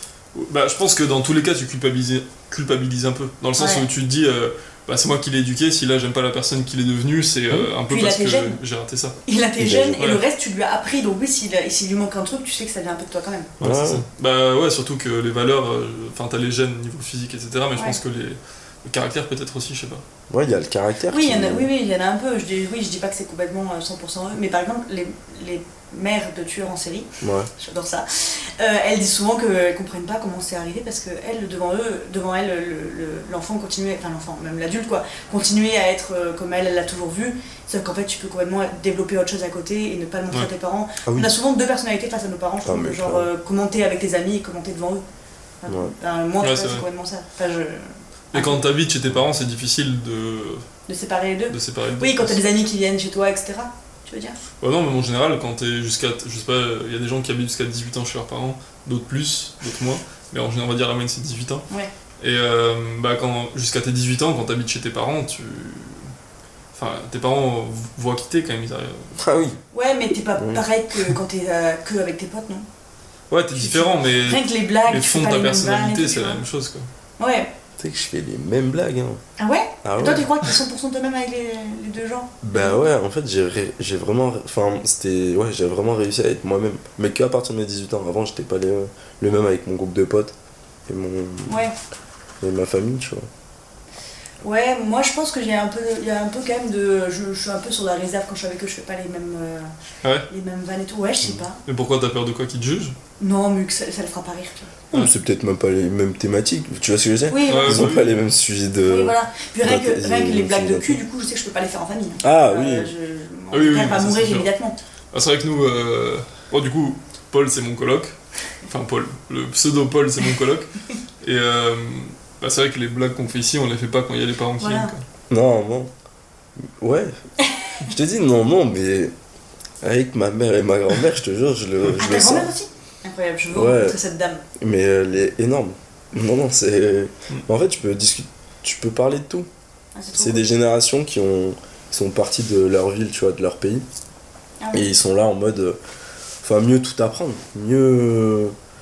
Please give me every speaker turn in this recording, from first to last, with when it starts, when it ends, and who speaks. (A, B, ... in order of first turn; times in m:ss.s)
0:00.4-0:09.2 A
0:03.6-0:03.9 B
0:07.9-0:08.6 B
0:09.2-0:13.5 B
0:09.6-0:10.0 C
0:10.0-0:10.2 A
0:13.6-0:14.0 C
0:13.6-0:20.0 A
0:20.3-0:21.7 C
0:21.1-0:45.0 B
0:27.2-0:27.5 C
0:41.0-0:41.3 C
0:42.6-0:43.2 C
0:45.6-0:48.7 B
0:45.7-0:45.9 C
0:46.4-0:46.8 A
0:48.3-0:50.6 A
0:50.9-0:54.4 B
0:51.5-0:52.4 A
0:54.6-1:01.6 A
1:02.2-1:06.1 A
1:06.7-1:09.1 A
1:09.2-1:09.6 C
1:09.7-1:12.6 B
1:10.4-1:11.1 C
1:13.3-1:16.9 A
1:13.6-1:16.4 B
1:17.2-1:17.5 B
1:17.8-1:19.2 C
1:19.4-1:22.8 B
1:19.8-1:20.3 C
1:22.4-1:30.4 C
1:30.9-1:31.6 C
1:31.5-1:31.7 B
1:32.4-1:33.3 C
1:34.4-1:39.7 B
1:40.3-1:41.6 B
1:41.6-1:42.9 A
1:43.2-1:44.7 B
1:44.9-1:51.0 C
1:47.3-1:48.0 B
1:47.4-1:48.2 A
1:48.9-1:54.8 B
1:52.2-1:52.9 C
1:53.5-1:54.5 A
1:55.1-2:05.0 A
2:04.6-2:04.9 B
2:05.3-2:05.9 C
2:06.6-2:07.1 C
2:07.8-2:09.1 C
2:09.8-2:12.5 C
2:12.0-2:14.4 B
2:13.5-2:14.0 C
2:14.6-2:19.5 C
2:19.9-2:20.5 B
2:20.2-2:23.8 C
2:24.6-2:24.9 B
2:24.7-2:25.8 C
2:26.4-2:28.5 C